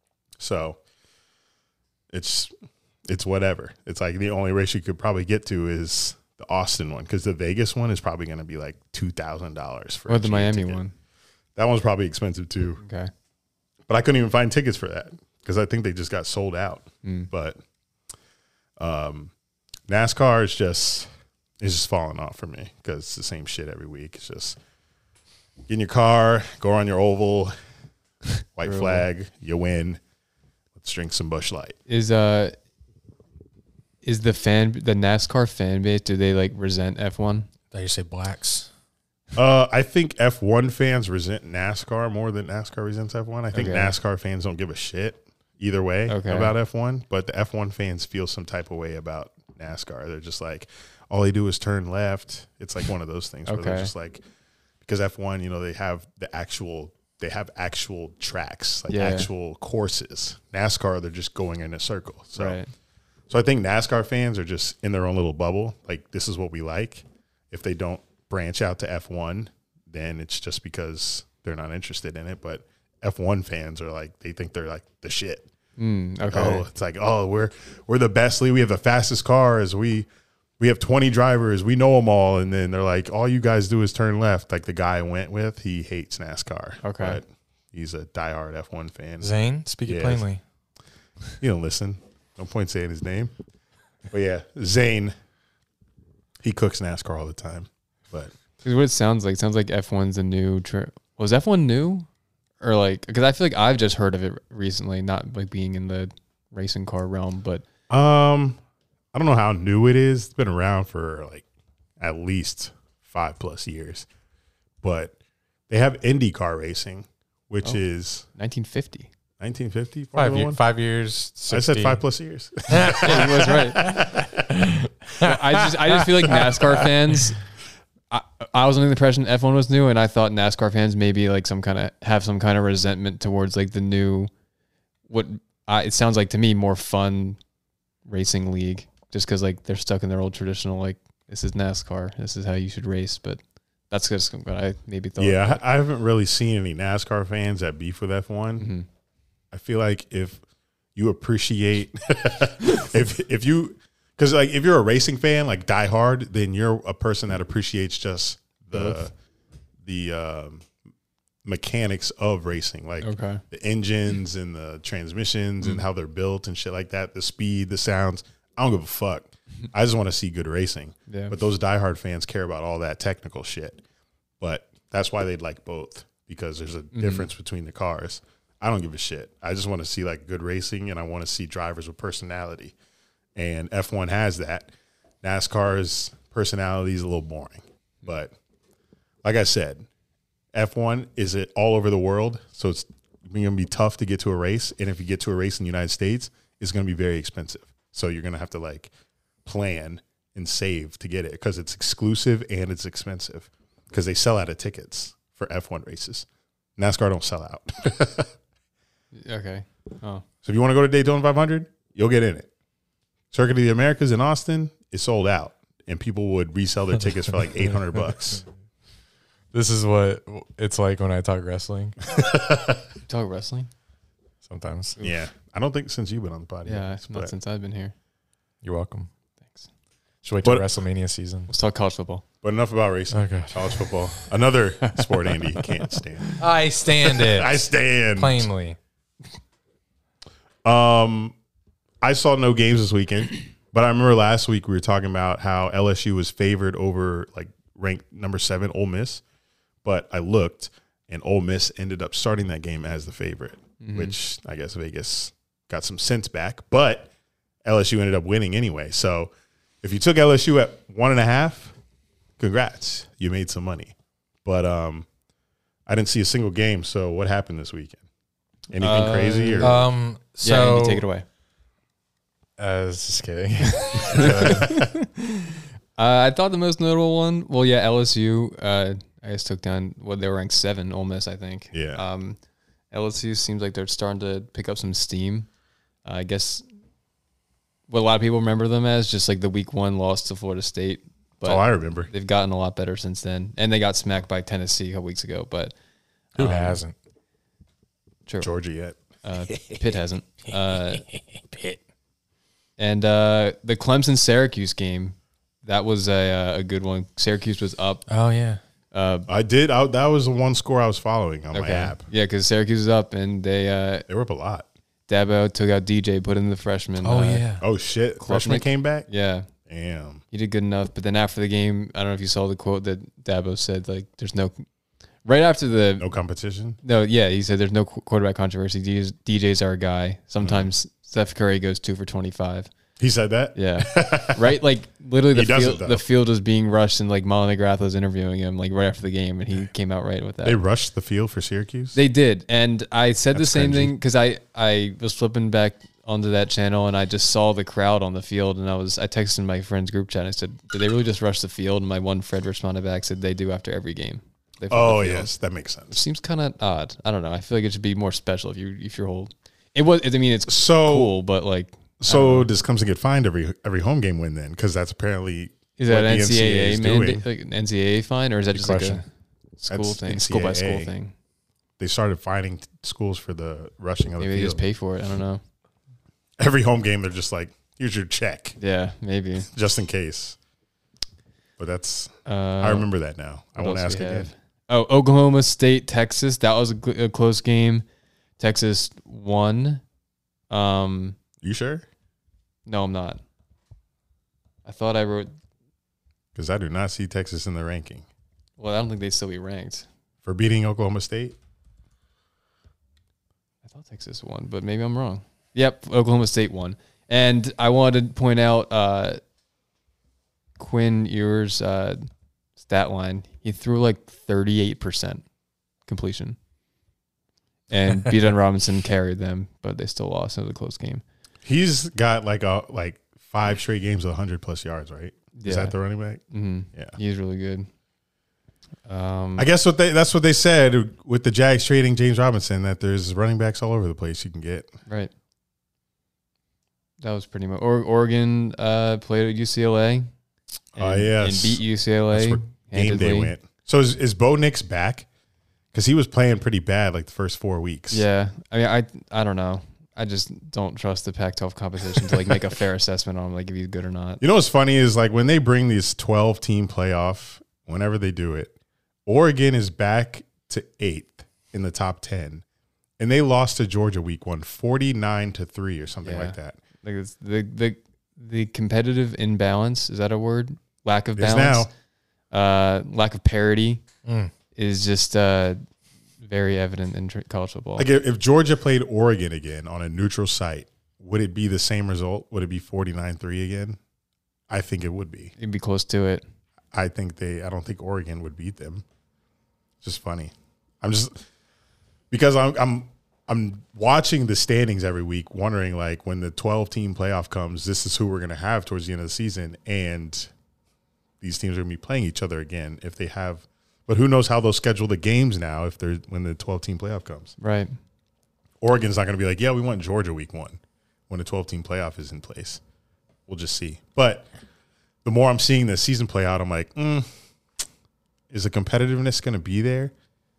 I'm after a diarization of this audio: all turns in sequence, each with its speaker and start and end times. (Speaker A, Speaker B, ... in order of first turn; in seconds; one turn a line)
Speaker A: 0.4-0.8
Speaker A: 2.1-2.5
Speaker A: 3.0-10.8
Speaker B: 10.1-10.9
Speaker A: 11.6-12.8
Speaker B: 12.8-13.1
Speaker A: 13.9-17.6
Speaker B: 17.0-17.3
Speaker A: 18.8-19.3
Speaker A: 19.9-21.1
Speaker A: 21.6-24.6
Speaker A: 25.7-27.5
Speaker A: 28.3-30.0
Speaker B: 28.6-29.0
Speaker A: 30.8-31.8
Speaker B: 31.9-32.5
Speaker B: 34.0-37.5
Speaker C: 37.7-38.7
Speaker A: 39.3-54.2
Speaker B: 43.5-43.9
Speaker B: 46.1-46.5
Speaker B: 53.5-53.9
Speaker A: 54.8-62.6
Speaker B: 58.9-59.3
Speaker B: 62.4-62.7
Speaker A: 63.3-75.5
Speaker B: 75.8-76.7
Speaker A: 76.3-80.1
Speaker A: 80.6-89.3
Speaker B: 86.8-87.2
Speaker C: 89.2-90.4
Speaker A: 89.8-90.2
Speaker A: 91.4-93.3
Speaker A: 94.1-95.1
Speaker A: 96.4-98.3
Speaker B: 98.6-102.0
Speaker B: 102.6-107.6
Speaker A: 107.9-108.6
Speaker A: 109.1-111.4
Speaker A: 112.0-114.1
Speaker A: 114.8-115.1
Speaker A: 115.7-118.2
Speaker B: 118.3-119.1
Speaker A: 119.4-120.6
Speaker C: 120.1-122.0
Speaker A: 121.5-124.5
Speaker C: 122.7-123.1
Speaker B: 123.0-123.9
Speaker C: 123.8-126.5
Speaker B: 125.2-127.4
Speaker B: 128.1-134.3
Speaker B: 135.1-137.4
Speaker B: 138.1-145.6
Speaker A: 145.2-148.7
Speaker B: 148.6-148.8
Speaker A: 149.5-150.4
Speaker A: 150.9-159.1
Speaker B: 158.7-159.0
Speaker A: 159.8-160.7
Speaker A: 161.4-173.8
Speaker B: 163.0-163.4
Speaker B: 171.1-171.3
Speaker A: 174.4-182.7
Speaker B: 176.9-177.3
Speaker A: 183.3-184.7
Speaker A: 185.2-188.3
Speaker A: 189.2-189.9
Speaker A: 190.5-198.9
Speaker A: 199.4-208.3
Speaker B: 209.1-210.2
Speaker A: 210.4-212.5
Speaker A: 213.3-218.4
Speaker C: 219.5-222.0
Speaker A: 222.2-222.6
Speaker B: 223.1-223.7
Speaker C: 224.4-225.0
Speaker A: 225.0-227.3
Speaker B: 226.7-227.9
Speaker C: 228.6-229.1
Speaker C: 230.2-231.5
Speaker A: 230.4-230.7
Speaker B: 231.5-232.2
Speaker A: 232.4-236.4
Speaker C: 233.1-234.2
Speaker C: 236.4-237.6
Speaker A: 237.0-238.5
Speaker C: 238.2-238.8
Speaker A: 240.6-241.3
Speaker A: 242.0-249.2
Speaker A: 249.8-257.1
Speaker B: 253.8-254.1
Speaker A: 257.6-261.7
Speaker A: 262.4-265.1
Speaker A: 265.9-268.0
Speaker A: 268.7-269.8
Speaker B: 268.8-269.9
Speaker C: 269.6-271.0
Speaker B: 270.4-271.2
Speaker C: 272.6-274.9
Speaker B: 274.0-282.4
Speaker A: 281.7-282.0
Speaker B: 282.9-285.5
Speaker B: 286.0-286.6
Speaker B: 287.9-295.7
Speaker A: 291.4-292.1
Speaker B: 296.4-296.8
Speaker C: 296.4-296.9
Speaker B: 298.2-298.5
Speaker A: 298.4-299.0
Speaker B: 299.2-301.0
Speaker B: 302.8-308.1
Speaker C: 308.1-308.6
Speaker B: 308.9-309.3
Speaker A: 309.3-312.1
Speaker B: 311.5-314.1
Speaker A: 314.1-314.7
Speaker B: 315.1-317.4
Speaker C: 317.0-317.6
Speaker A: 317.6-319.1
Speaker B: 318.2-319.5
Speaker A: 319.6-320.2
Speaker B: 320.3-324.6
Speaker B: 325.2-326.1
Speaker A: 326.0-326.8
Speaker B: 326.8-332.7
Speaker A: 330.4-330.7
Speaker A: 333.0-334.6
Speaker B: 333.5-340.6
Speaker A: 335.3-336.0
Speaker A: 340.4-342.0
Speaker B: 341.9-355.3
Speaker A: 343.3-343.9
Speaker A: 354.7-356.0
Speaker B: 355.9-362.5
Speaker A: 360.5-361.1
Speaker A: 362.0-367.2
Speaker B: 365.8-369.0
Speaker C: 368.5-369.0
Speaker B: 369.6-371.1
Speaker A: 369.7-370.9
Speaker A: 371.8-374.6
Speaker B: 374.2-375.4
Speaker A: 376.4-378.6
Speaker B: 378.6-379.5
Speaker A: 379.4-380.4
Speaker A: 381.6-384.3
Speaker B: 382.2-382.9
Speaker B: 383.6-387.8
Speaker B: 388.4-389.8
Speaker B: 390.5-391.2
Speaker A: 391.4-391.9
Speaker B: 392.6-393.2
Speaker B: 394.6-395.3
Speaker A: 396.3-398.1
Speaker B: 398.6-399.9
Speaker A: 400.2-401.4
Speaker B: 403.6-409.2
Speaker B: 410.6-412.1
Speaker B: 412.6-415.2
Speaker B: 415.9-416.4
Speaker B: 417.7-421.0
Speaker A: 421.4-426.2
Speaker B: 425.4-425.8
Speaker B: 426.3-427.7
Speaker B: 428.9-429.5
Speaker A: 429.4-434.7
Speaker B: 437.0-440.1
Speaker A: 440.7-445.1
Speaker B: 440.8-443.3
Speaker A: 445.7-448.0
Speaker B: 447.9-454.2
Speaker A: 454.2-458.5
Speaker A: 459.1-462.4
Speaker A: 463.0-466.6
Speaker B: 466.0-471.7
Speaker A: 471.1-471.7
Speaker B: 472.3-473.8
Speaker C: 474.1-474.3
Speaker B: 474.5-475.6
Speaker B: 476.2-477.9
Speaker A: 477.8-483.8
Speaker A: 484.5-485.3
Speaker B: 485.4-486.2
Speaker A: 486.7-488.8
Speaker A: 489.8-491.2
Speaker A: 492.1-500.3
Speaker A: 501.2-507.3
Speaker B: 507.4-507.7
Speaker A: 508.6-512.6
Speaker A: 513.3-514.3
Speaker A: 515.0-517.1
Speaker A: 518.3-519.9